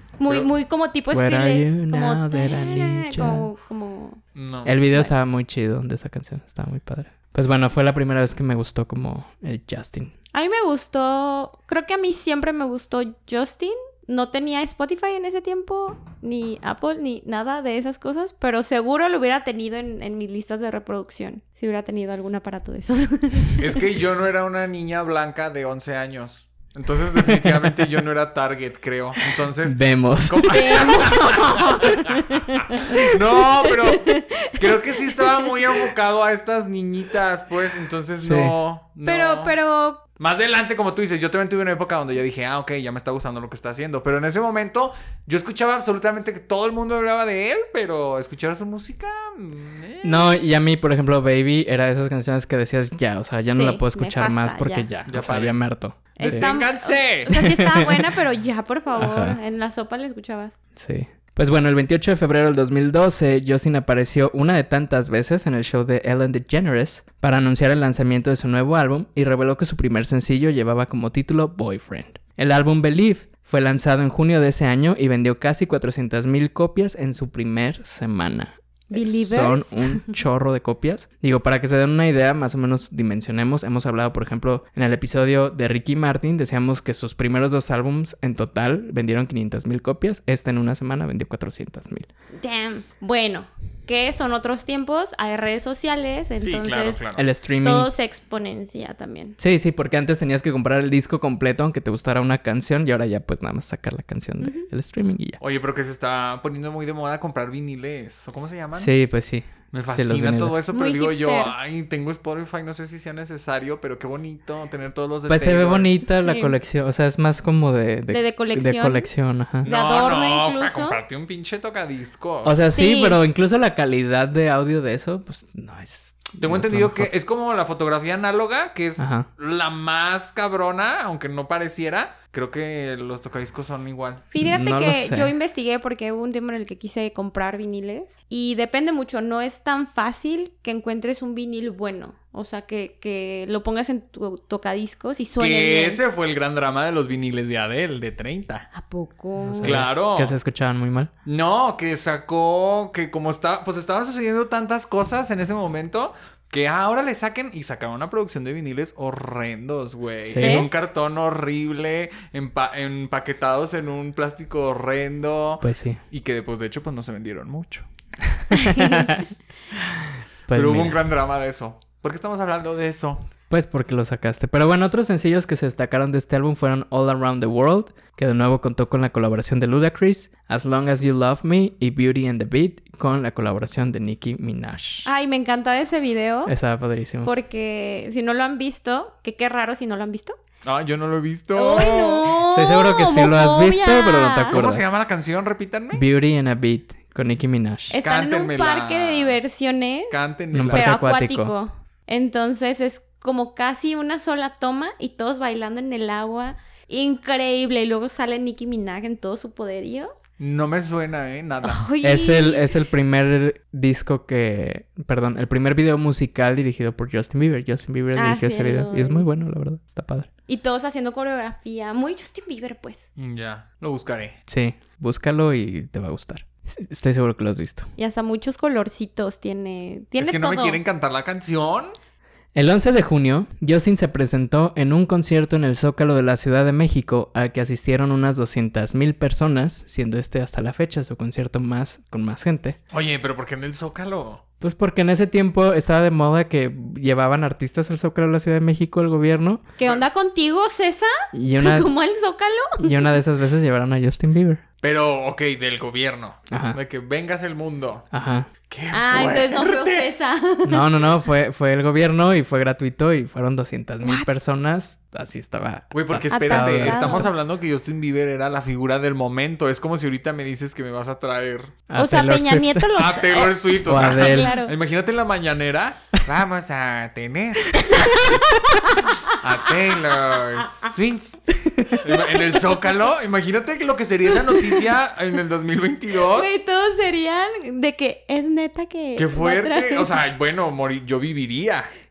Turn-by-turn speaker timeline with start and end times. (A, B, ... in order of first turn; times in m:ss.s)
0:00.2-0:04.2 A
0:01.1-0:03.5 B
0:04.3-0:04.8 C
0:04.6-0:10.1 B
0:10.3-0:23.8 A
0:23.6-0:32.2 C
0:27.4-0:27.7 B
0:29.6-0:31.2 B
0:30.5-0:35.8 A
0:32.9-0:39.5 C
0:38.2-0:38.5 B
0:39.0-0:40.0 A
0:40.2-0:50.3 C
0:50.0-0:56.4 B
0:53.5-0:54.9 A
0:55.0-0:55.6 C
0:56.2-1:00.5 A
0:56.2-0:57.4 C
0:57.4-0:58.1 B
0:59.0-0:59.4 B
1:00.8-1:32.1 B
1:18.9-1:20.1 A
1:32.4-1:37.0 A
1:36.4-1:37.2 C
1:37.1-1:37.9 B
1:37.6-1:39.4 A
1:39.4-1:45.4 B
1:44.4-1:44.7 A
1:45.4-1:48.9 C
1:48.7-1:50.6 B
1:49.7-1:55.9 C
1:50.7-1:51.5 A
1:55.3-1:59.7 B
1:56.2-1:56.6 A
1:58.1-1:59.1 A
1:59.6-2:01.0 A
1:59.6-2:02.6 C
2:02.4-2:07.1 B
2:02.7-2:03.2 A
2:06.4-2:14.2 C
2:09.0-2:09.3 B
2:14.3-2:26.0 A
2:14.4-2:15.3 B
2:25.4-2:28.7 C
2:28.7-2:29.8 A
2:29.4-2:31.1 B
2:29.6-2:30.3 C
2:31.2-2:47.8 C
2:40.2-2:40.8 B
2:40.4-2:40.7 A
2:45.6-2:46.0 B
2:48.5-2:49.3 B
2:48.5-2:49.1 A
2:49.8-2:51.0 B
2:50.5-2:53.2 C
2:53.5-3:05.1 B
3:05.0-3:06.5 A
3:06.5-3:07.3 B
3:07.2-3:10.4 A
3:10.6-3:12.3 C
3:11.6-3:14.6 A
3:12.5-3:14.8 B
3:14.5-3:16.0 C
3:15.9-3:18.0 B
3:17.9-3:20.2 A
3:18.0-3:19.4 C
3:20.1-3:21.0 C
3:20.5-3:21.5 B
3:20.7-3:30.1 A
3:30.4-3:31.8 C
3:31.6-3:32.8 A
3:32.0-3:40.3 B
3:38.1-3:39.2 A
3:40.5-3:43.0 A
3:43.2-3:44.4 C
3:44.5-3:47.9 B
3:48.0-3:50.8 A
3:50.2-3:51.9 C
3:52.5-4:02.8 B
4:02.9-4:04.4 C
4:04.6-4:09.6 B
4:09.8-4:13.2 A
4:11.3-4:11.9 B
4:12.8-4:14.6 B
4:14.8-4:18.0 C
4:16.5-4:16.8 B
4:18.1-4:18.5 B
4:18.7-4:20.1 C
4:18.9-4:21.0 A
4:20.6-4:27.3 B
4:25.9-4:31.7 C
4:26.3-4:27.3 A
4:31.9-4:32.9 B
4:32.0-4:34.7 A
4:33.0-4:38.3 C
4:33.8-4:34.5 B
4:37.7-4:39.4 A
4:39.3-4:41.4 C
4:40.6-4:40.9 A
4:41.6-4:42.0 B
4:42.0-4:46.5 C
4:44.4-4:44.8 A
4:46.3-4:50.1 A
4:49.2-4:51.9 C